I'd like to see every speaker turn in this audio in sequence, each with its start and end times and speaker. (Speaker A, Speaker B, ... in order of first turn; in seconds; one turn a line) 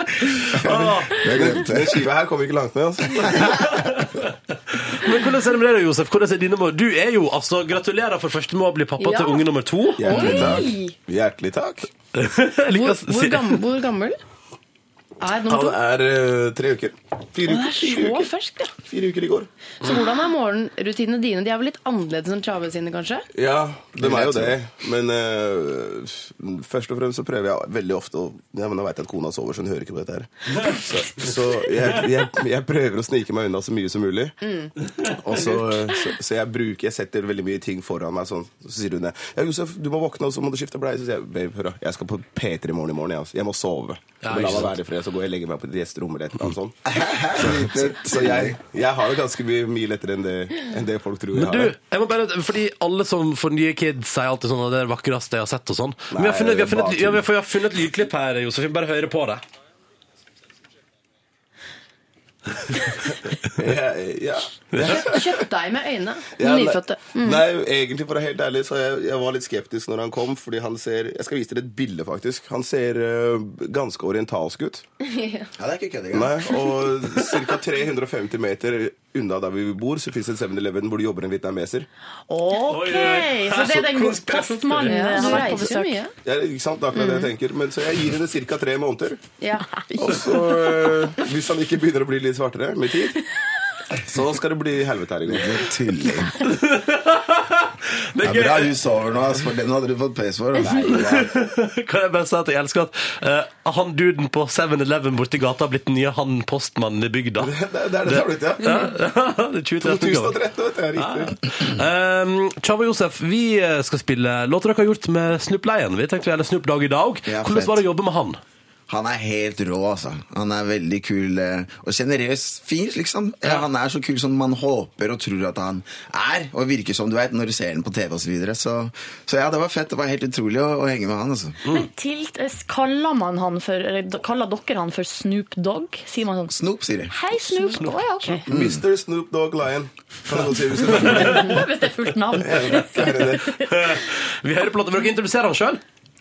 Speaker A: 0.2-2.0
Speaker B: 0.5-1.6
Speaker C: 0.7-3.7
Speaker B: 3.4-10.3
Speaker D: 9.0-9.4
Speaker C: 10.0-11.9
Speaker D: 10.0-10.9
Speaker E: 10.3-10.7
Speaker B: 12.1-13.6
Speaker D: 12.7-14.2
Speaker D: 15.2-15.8
Speaker C: 15.5-18.3
Speaker D: 17.4-18.7
Speaker C: 18.8-19.5
Speaker D: 19.8-23.3
Speaker C: 23.3-34.4
Speaker A: 24.0-24.5
Speaker D: 34.4-34.7
Speaker B: 35.0-35.5
Speaker C: 35.1-46.8
Speaker B: 44.2-44.8
Speaker A: 46.9-48.6
Speaker C: 47.4-51.7
Speaker B: 51.3-59.4
Speaker C: 56.1-57.2
Speaker C: 63.5-65.3
Speaker D: 64.8-67.4
Speaker C: 66.4-74.8
Speaker D: 75.0-75.5
Speaker A: 75.6-76.4
Speaker C: 76.1-81.9
Speaker E: 82.3-86.0
Speaker B: 82.5-85.7
Speaker D: 84.8-86.1
Speaker C: 86.2-89.2
Speaker D: 86.9-87.3
Speaker D: 89.4-90.5
Speaker C: 90.0-93.2
Speaker C: 94.0-95.7
Speaker A: 95.3-96.4
Speaker B: 96.3-98.7
Speaker A: 98.2-101.0
Speaker C: 100.6-101.3
Speaker B: 100.9-107.5
Speaker C: 107.4-108.7
Speaker B: 108.0-110.4
Speaker C: 109.8-111.4
Speaker B: 111.0-118.4
Speaker A: 117.3-117.8
Speaker A: 118.9-131.6
Speaker E: 131.7-136.5
Speaker A: 136.5-137.1
Speaker E: 137.1-138.4
Speaker C: 138.5-141.6
Speaker A: 138.5-138.8
Speaker B: 140.9-141.5
Speaker E: 141.1-143.7
Speaker C: 142.4-143.5
Speaker B: 143.6-145.8